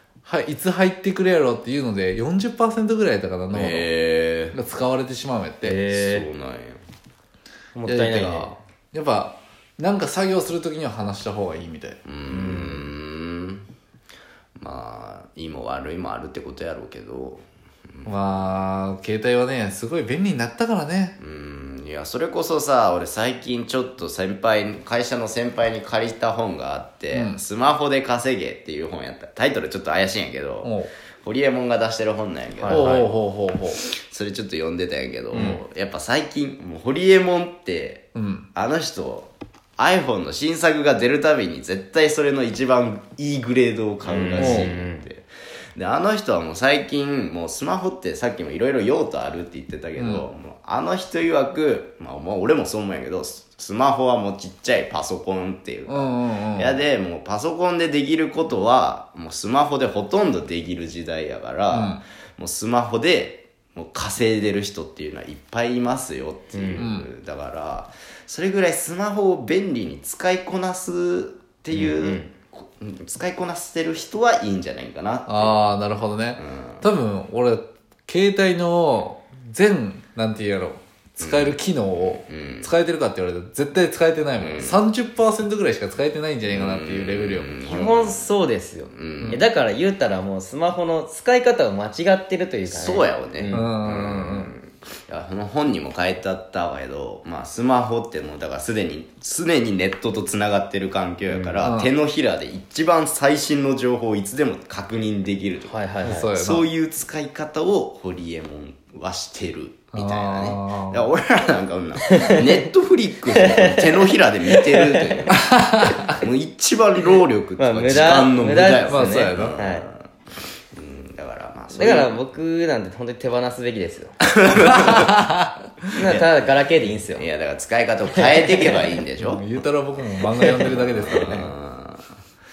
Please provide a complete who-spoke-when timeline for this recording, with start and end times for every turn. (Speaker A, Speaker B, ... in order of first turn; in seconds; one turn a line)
Speaker A: 0.2-3.9
Speaker B: 3.5-4.6
Speaker A: 4.5-5.8
Speaker C: 5.6-6.3
Speaker B: 5.9-6.8
Speaker C: 7.8-8.5
Speaker A: 7.8-12.0
Speaker B: 12.1-13.7
Speaker C: 12.3-12.8
Speaker B: 14.6-18.1
Speaker A: 18.1-21.2
Speaker B: 21.2-33.2
Speaker A: 27.1-27.4
Speaker A: 30.6-30.9
Speaker C: 32.6-33.1
Speaker A: 32.7-33.8
Speaker B: 33.8-75.6
Speaker A: 35.3-35.6
Speaker A: 38.1-38.5
Speaker C: 44.0-45.1
Speaker A: 44.4-44.7
Speaker A: 50.0-50.3
Speaker A: 55.9-56.8
Speaker A: 61.7-62.0
Speaker C: 66.5-66.9
Speaker A: 66.8-67.1
Speaker C: 71.7-72.3
Speaker A: 75.3-87.5
Speaker B: 76.4-76.8
Speaker B: 81.2-81.6
Speaker B: 82.2-82.7
Speaker B: 84.4-84.8
Speaker B: 86.5-88.3
Speaker C: 87.6-94.5
Speaker B: 88.9-89.4
Speaker B: 92.7-120.1
Speaker A: 93.5-94.5
Speaker C: 101.3-101.6
Speaker A: 101.6-101.9
Speaker C: 105.7-106.3
Speaker A: 106.0-106.7
Speaker A: 109.9-111.1
Speaker C: 112.1-112.5
Speaker C: 113.3-113.9
Speaker C: 114.5-115.2
Speaker A: 115.4-116.1
Speaker C: 117.6-119.9
Speaker A: 118.8-119.6
Speaker B: 120.7-122.2
Speaker C: 121.7-124.1
Speaker B: 124.4-125.2
Speaker A: 124.6-125.5
Speaker C: 126.0-127.2
Speaker B: 126.0-126.3
Speaker B: 127.1-129.5
Speaker C: 128.1-128.7
Speaker A: 129.2-131.5
Speaker C: 130.4-131.4
Speaker B: 130.7-132.2